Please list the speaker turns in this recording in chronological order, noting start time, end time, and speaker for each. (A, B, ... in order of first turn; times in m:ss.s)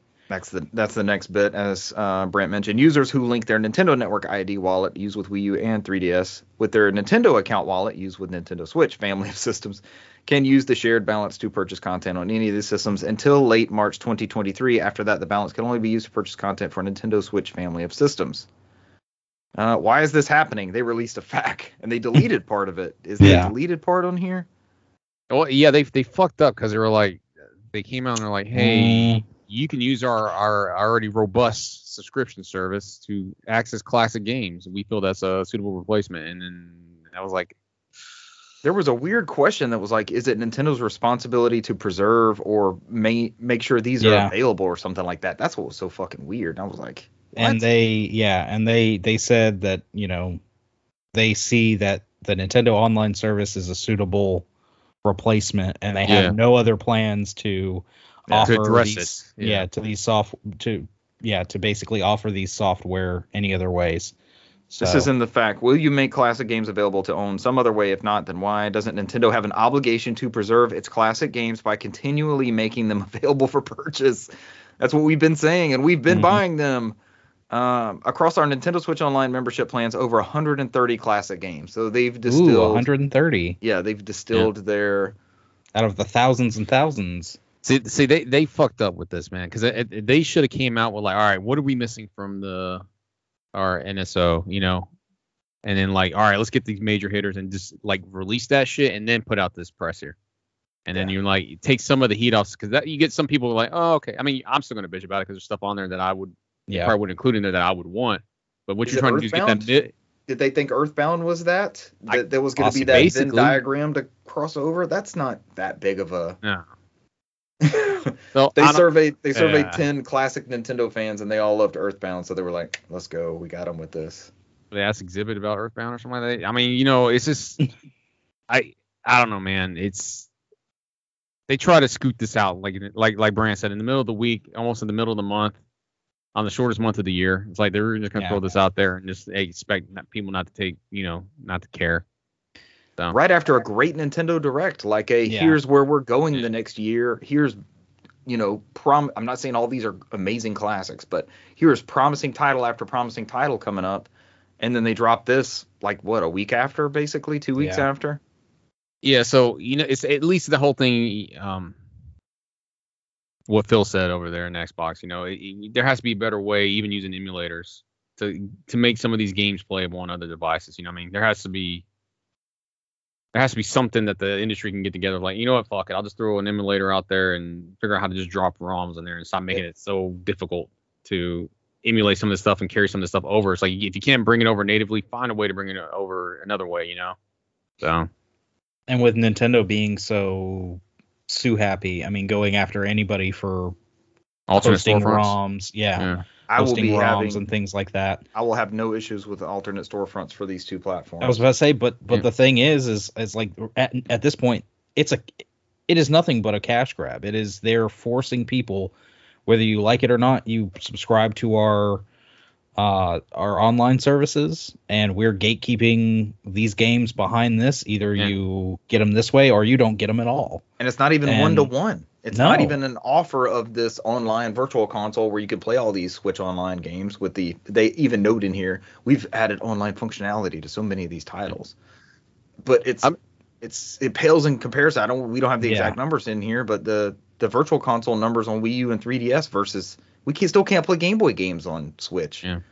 0:00.3-0:18.5 A
0:19.5-0:24.5 A
0:23.2-0:23.5 B
0:25.3-0:37.5 C
0:28.5-0:29.2 B
0:38.6-0:47.6 A
0:44.0-0:44.3 B
0:47.4-0:50.4 B
0:51.1-0:54.4 B
0:55.0-1:04.1 B
0:56.1-0:56.4 C
0:58.3-0:58.5 A
0:58.4-0:59.7 C
1:04.7-1:05.1 B
1:04.8-1:17.0 A
1:16.1-1:16.4 B
1:17.5-1:22.8 A
1:22.2-1:23.6 B
1:23.6-1:25.1 A
1:25.8-1:27.4 B
1:27.6-1:32.8 C
1:33.5-1:34.9 C
1:35.6-1:40.2 C
1:40.8-1:49.9 C
1:46.7-1:46.9 B
1:48.8-1:49.7 A
1:50.3-1:56.4 A
1:52.6-1:53.1 B
1:52.9-1:53.6 C
1:57.6-2:04.3 A
1:58.3-1:59.8 C
2:04.7-2:07.6 C
2:08.5-2:10.3 C
2:11.5-2:15.6 C
2:16.3-2:22.0 C
2:23.1-2:27.6 A
2:25.2-2:25.6 B
2:28.2-2:34.1 A
2:34.6-2:38.2 A
2:37.6-2:37.8 B
2:39.0-2:41.8 C
2:43.5-2:51.8 C
2:53.3-3:07.2 C
3:07.8-3:08.1 C
3:08.9-3:13.7 B
3:14.5-3:15.3 C
3:14.6-3:18.2 B
3:16.0-3:16.2 C
3:16.5-3:17.4 A
3:18.3-3:21.4 A
3:21.2-3:28.9 B
3:29.4-3:32.0 B
3:32.8-3:40.6 B
3:40.8-3:51.7 A
3:41.2-3:41.7 B
3:42.3-3:42.8 B
3:52.6-4:02.4 A
3:55.6-3:56.0 B